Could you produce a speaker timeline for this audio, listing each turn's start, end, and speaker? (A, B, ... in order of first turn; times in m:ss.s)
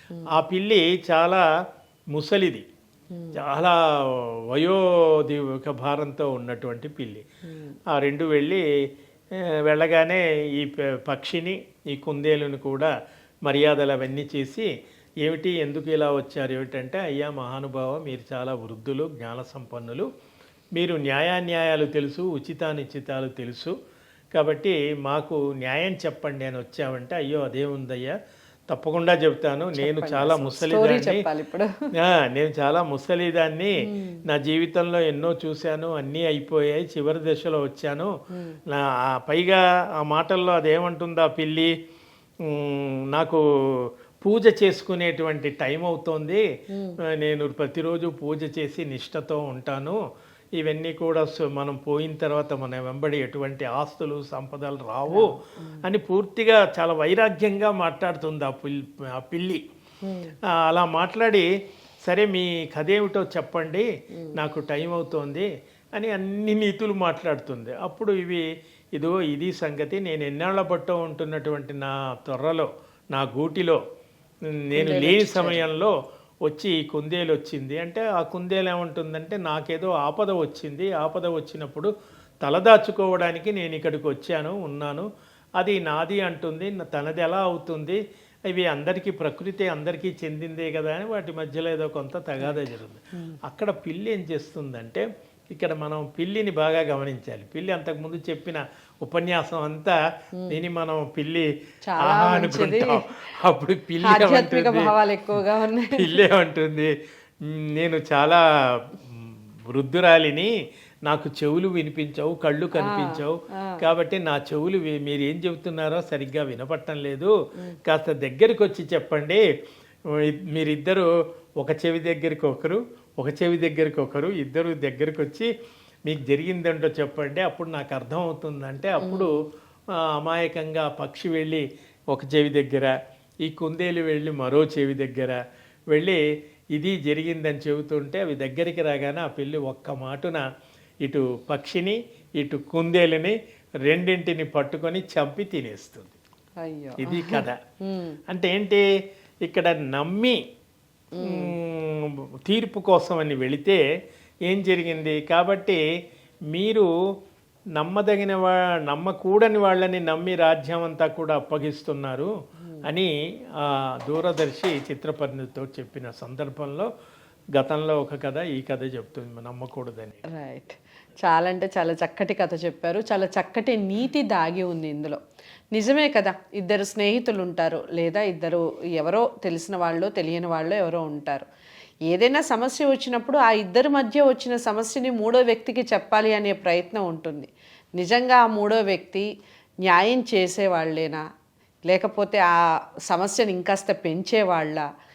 0:00.3-0:01.4 A
0:02.1-0:02.6 A
0:03.3-0:07.2 A
0:07.9-0:08.6 A
0:09.4-0:12.9 A
0:13.5-0:14.7 A
0:15.2-0:20.1 A
0:20.8-0:23.8 A
0:24.3-0:28.2 A
0:28.7-0:31.3 A
0:29.8-0:31.7 B
0:32.0-0:38.1 A
0:33.8-0:34.2 B
0:38.7-0:41.8 A
0:42.4-0:46.4 A
0:46.7-0:47.0 B
0:47.0-0:50.0 A
0:50.6-0:55.3 A
0:55.1-0:55.8 B
0:55.8-0:59.6 A
1:00.0-1:00.3 B
1:00.5-1:01.5 A
1:02.0-1:08.4 A
1:09.0-1:13.8 A
1:14.5-1:15.9 A
1:14.8-1:15.6 B
1:16.5-1:21.9 A
1:22.4-1:25.1 A
1:25.6-1:40.0 A
1:40.5-1:41.5 A
1:41.9-1:43.2 B
1:42.0-1:46.9 A
1:44.0-1:46.2 B
1:47.4-1:50.5 A
1:51.1-1:57.3 A
1:52.8-1:53.8 B
1:57.8-1:59.4 A
2:00.1-2:01.1 A
2:01.6-2:05.5 A
2:06.1-2:09.3 A
2:09.0-2:09.3 B
2:09.9-2:12.9 A
2:13.4-2:15.4 A
2:15.9-2:16.2 A
2:16.8-2:20.4 A
2:21.0-2:26.2 A
2:26.6-2:28.2 B
2:27.0-2:27.6 A
2:28.3-2:28.8 A
2:29.4-2:30.4 A
2:31.2-2:31.6 B
2:31.2-2:33.8 A
2:34.5-2:35.8 A
2:36.5-2:36.9 A
2:37.8-2:42.3 A
2:42.8-2:46.9 A
2:47.6-2:50.2 A
2:50.3-2:55.2 B
2:55.7-3:01.4 B
3:02.1-3:09.3 B
3:09.8-3:11.2 B
3:11.9-3:12.6 B
3:13.1-3:14.8 B